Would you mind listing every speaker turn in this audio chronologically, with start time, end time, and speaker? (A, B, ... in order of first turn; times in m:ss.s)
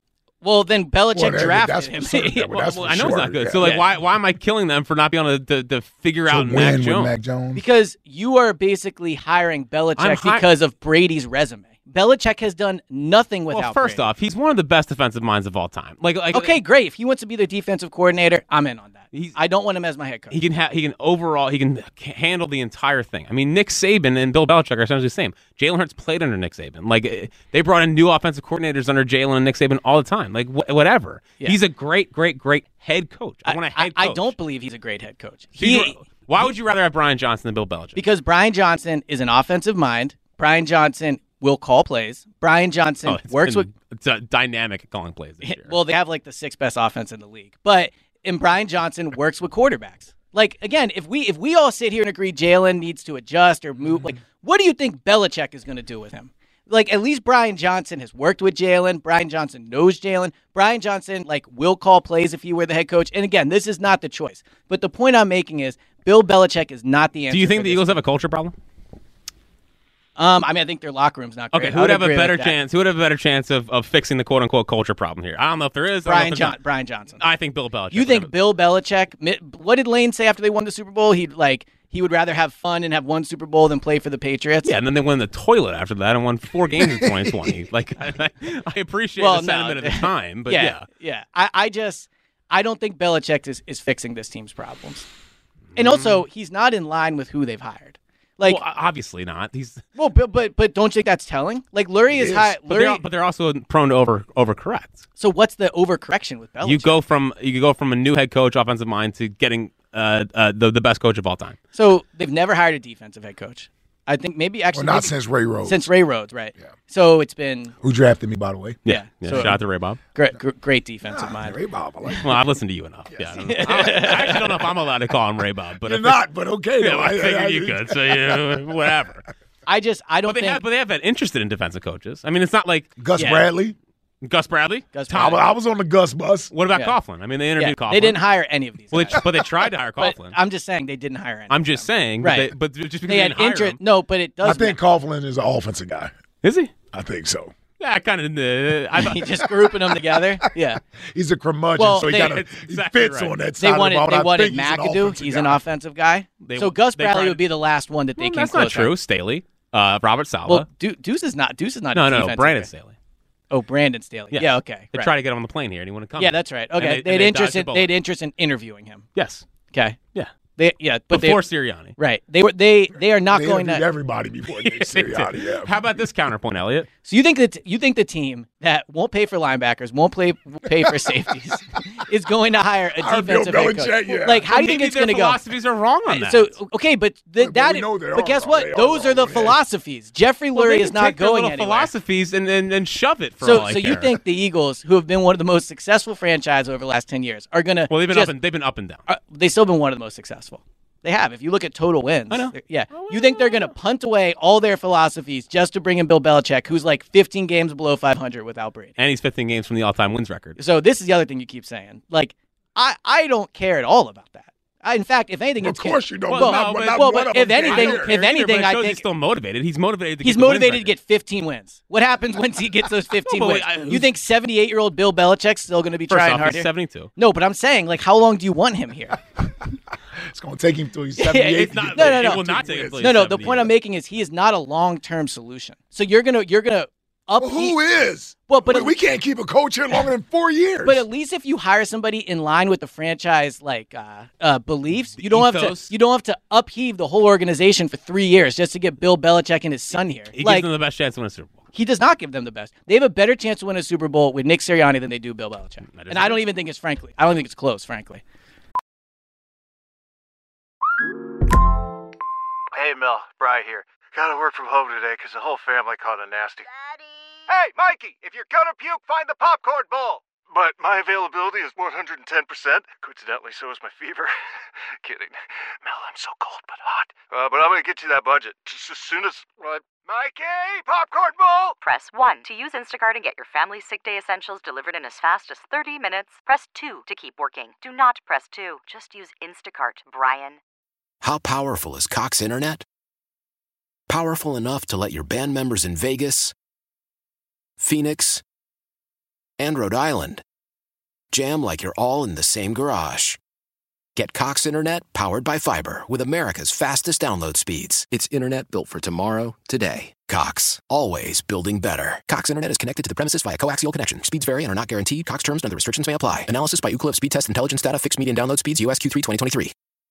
0:00.4-0:02.5 A
0:01.1-0:03.6 B
0:02.5-0:07.1 C
0:03.6-0:03.8 A
0:06.3-0:07.6 B
0:07.5-0:14.1 A
0:10.0-0:10.4 C
0:13.5-0:16.6 C
0:16.3-0:20.4 A
0:20.3-0:34.4 C
0:33.4-0:36.5 A
0:35.6-0:38.0 C
0:37.9-0:43.7 A
0:43.1-0:45.8 C
0:45.4-1:08.0 A
1:07.3-1:08.6 C
1:10.2-1:12.6 A
1:11.5-1:16.6 C
1:16.0-1:17.2 A
1:17.2-1:18.3 C
1:17.9-1:24.7 A
1:24.6-1:30.8 C
1:29.2-1:35.1 A
1:35.7-1:36.2 C
1:35.8-1:38.6 A
1:38.4-1:39.8 C
1:40.0-1:43.0 A
1:42.1-1:42.5 B
1:42.7-1:45.0 C
1:45.2-1:47.0 A
1:46.6-1:51.6 C
1:51.7-1:57.7 A
1:54.7-1:55.9 B
1:57.8-1:58.8 B
1:58.9-2:00.0 C
1:58.9-2:01.6 A
2:01.1-2:02.3 B
2:02.2-2:06.2 C
2:03.4-2:04.6 A
2:05.8-2:08.4 B
2:06.8-2:09.2 C
2:09.7-2:10.6 A
2:10.3-2:12.9 C
2:13.0-2:13.8 B
2:13.2-2:13.5 A
2:14.2-2:15.4 C
2:14.9-2:15.4 A
2:15.1-2:16.5 B
2:16.5-2:18.2 C
2:17.6-2:19.2 A
2:18.9-2:20.4 C
2:20.0-2:22.5 A
2:21.5-2:23.8 C
2:23.1-2:24.8 A
2:24.4-2:26.1 B
2:26.4-2:26.7 C
2:26.9-2:27.5 B
2:27.8-2:29.4 C
2:29.0-2:30.8 A
2:31.1-2:35.6 B
2:31.8-2:32.4 A
2:32.1-2:33.3 C
2:33.6-2:38.9 A
2:36.4-2:37.4 C
2:38.2-2:40.7 C
2:40.4-2:42.7 A
2:41.9-2:42.9 C
2:43.5-2:45.1 A
2:44.3-2:47.9 C
2:46.2-2:49.1 A
2:49.2-2:49.4 C
2:49.7-2:50.0 A
2:50.6-2:51.4 A
2:51.1-2:52.0 C
2:51.9-2:53.8 A
2:53.3-2:55.7 B
2:54.6-2:56.9 C
2:57.0-3:05.4 A
3:03.0-3:04.4 B
3:04.5-3:06.5 C
3:06.1-3:11.9 A
3:07.4-3:09.6 B
3:10.6-3:14.2 C
3:13.4-3:18.3 A
3:17.9-3:19.0 C
3:19.1-3:28.9 A
3:22.3-3:23.7 C
3:29.0-3:30.6 C
3:30.6-3:39.0 A
3:35.6-3:38.2 B
3:36.3-3:40.9 C
3:40.2-3:49.2 A
3:43.3-3:44.1 C
3:46.1-3:47.1 C
3:50.3-3:53.1 B
3:51.2-3:57.8 A
3:51.5-3:53.7 C
3:57.4-4:01.0 B
3:58.5-3:58.9 A
4:00.8-4:10.7 A
4:05.2-4:05.9 C
4:10.3-4:11.6 C
4:11.7-4:18.2 A
4:15.9-4:16.4 C
4:22.7-4:26.7 D
4:27.5-4:34.3 D
4:35.0-4:41.8 D
4:41.8-4:50.6 E
4:51.2-4:52.8 F
4:54.1-4:56.5 F
4:57.8-4:58.4 F
4:59.6-5:00.4 F
5:01.3-5:03.4 F
5:04.2-5:19.7 F